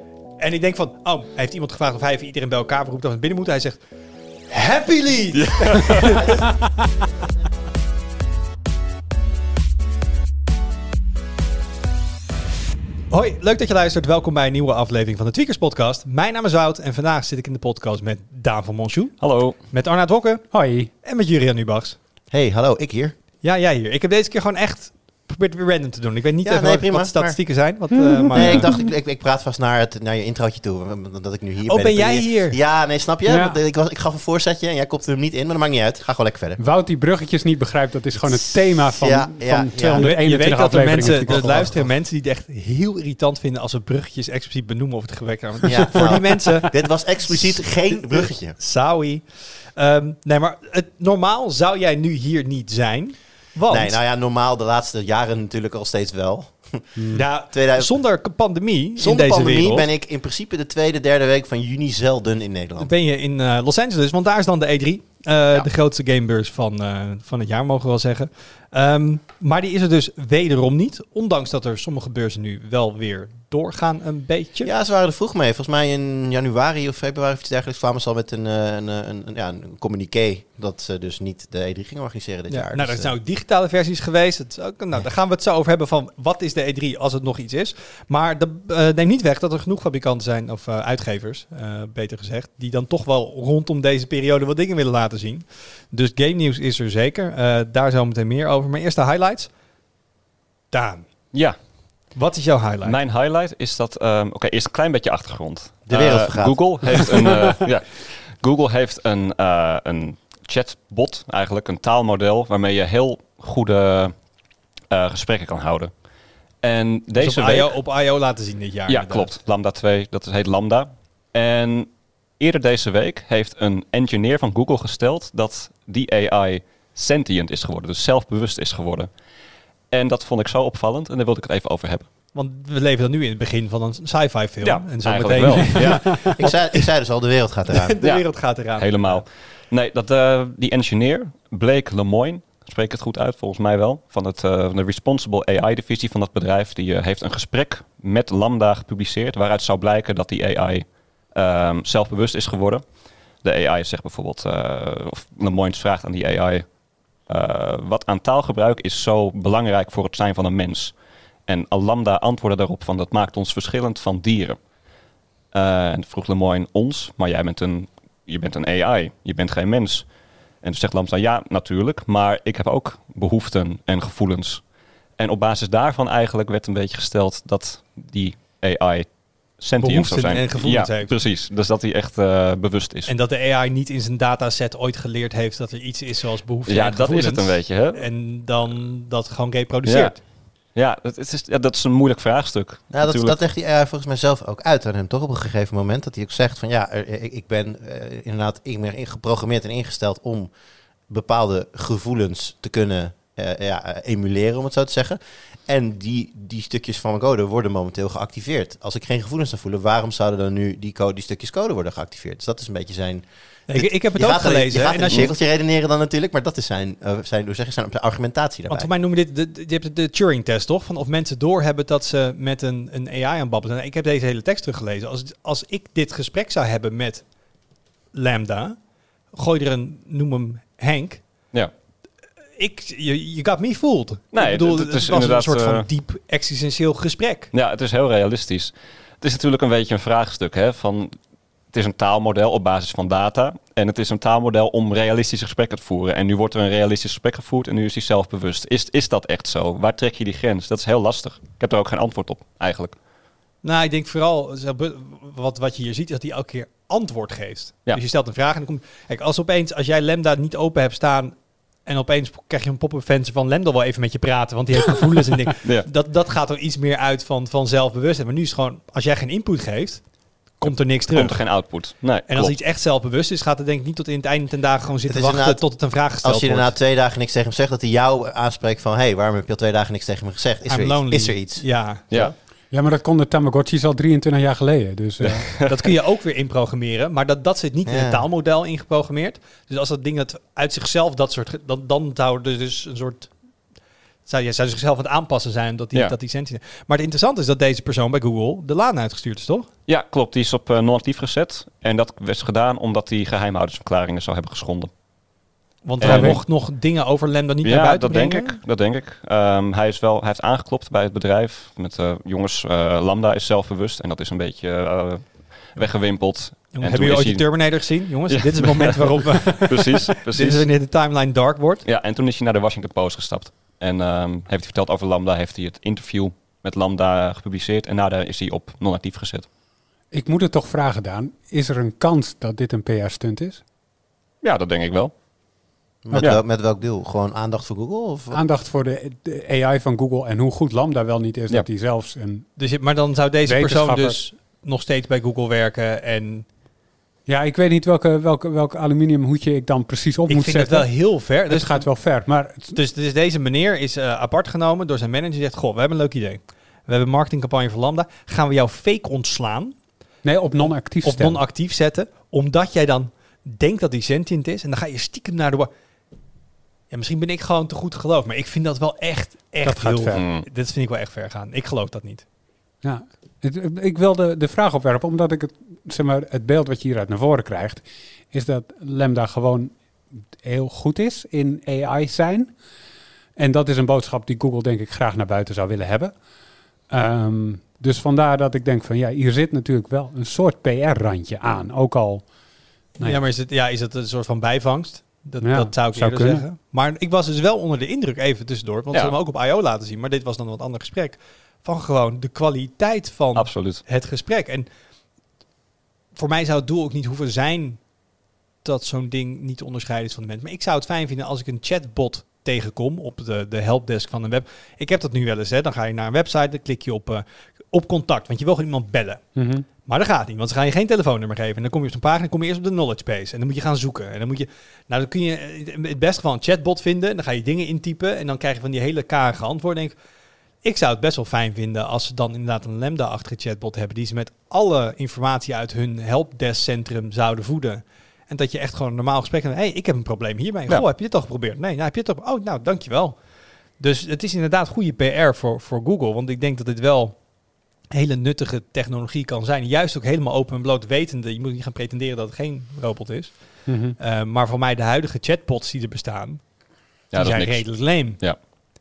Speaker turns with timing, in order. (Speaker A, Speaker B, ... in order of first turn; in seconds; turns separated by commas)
Speaker A: 0.4-3.8, Speaker A: 4.5-6.5, Speaker B: 5.3-6.2, Speaker A: 13.1-22.0, Speaker B: 19.2-19.6, Speaker C: 20.5-20.9, Speaker D: 22.3-23.2, Speaker A: 23.4-28.7, Speaker D: 26.4-27.6, Speaker C: 27.9-28.9, Speaker D: 28.3-36.6, Speaker A: 31.6-32.6, Speaker C: 33.2-33.6, Speaker C: 36.6-41.7, Speaker D: 38.1-40.2, Speaker A: 40.0-54.0, Speaker D: 41.2-41.9, Speaker D: 45.6-48.5, Speaker D: 53.7-58.4, Speaker C: 57.0-57.2, Speaker A: 57.1-59.9, Speaker D: 59.0-62.9, Speaker A: 62.8-74.7, Speaker D: 74.6-83.1, Speaker A: 82.5-99.5, Speaker A: 100.7-101.1, Speaker A: 102.1-103.0, Speaker B: 102.8-114.2, Speaker D: 105.9-107.0, Speaker B: 114.9-115.9, Speaker B: 116.6-117.8, Speaker A: 117.2-119.3, Speaker B: 118.9-129.1, Speaker B: 129.9-132.1, Speaker A: 132.3-136.8, Speaker B: 134.6-136.3, Speaker D: 136.3-138.0, Speaker A: 137.7-139.2, Speaker B: 138.0-164.6, Speaker B: 165.5-170.1, Speaker B: 170.6-183.1, Speaker A: 179.8-181.1, Speaker A: 183.1-190.2, Speaker B: 186.7-188.0, Speaker B: 189.8-193.4, Speaker D: 192.9-200.5, Speaker D: 201.1-218.9, Speaker A: 213.7-215.4, Speaker A: 218.7-227.4, Speaker A: 228.1-231.3, Speaker A: 232.5-237.5, Speaker B: 234.3-235.9, Speaker B: 237.5-252.9, Speaker A: 253.6-276.8, Speaker B: 270.6-272.6, Speaker D: 275.1-281.7, Speaker A: 280.7-282.4, Speaker C: 282.7-285.6, Speaker B: 285.2-285.8, Speaker A: 285.6-293.4, Speaker D: 287.9-288.2, Speaker A: 294.2-299.7, Speaker B: 299.9-304.9, Speaker A: 305.8-308.6, Speaker B: 306.0-306.4, Speaker C: 306.0-306.4, Speaker B: 307.6-320.7, Speaker A: 315.8-321.8, Speaker B: 321.8-329.5, Speaker C: 330.1-333.6, Speaker B: 334.4-335.1, Speaker D: 336.1-338.4, Speaker C: 336.1-336.4, Speaker C: 338.3-342.6, Speaker A: 342.6-346.5, Speaker C: 343.4-344.2, Speaker C: 347.2-352.8, Speaker A: 350.3-359.8, Speaker C: 360.2-361.4, Speaker A: 360.6-365.7, Speaker A: 366.9-372.2, Speaker C: 369.6-370.2, Speaker B: 370.1-370.4, Speaker C: 372.8-379.8, Speaker C: 380.3-382.5, Speaker C: 383.4-386.1, Speaker C: 386.9-392.3, Speaker A: 393.0-404.7, Speaker C: 395.4-396.4, Speaker B: 403.3-403.8, Speaker A: 406.1-407.9, Speaker A: 408.6-430.0, Speaker C: 419.3-419.6, Speaker A: 430.6-458.5, Speaker C: 453.6-454.0, Speaker B: 457.1-458.4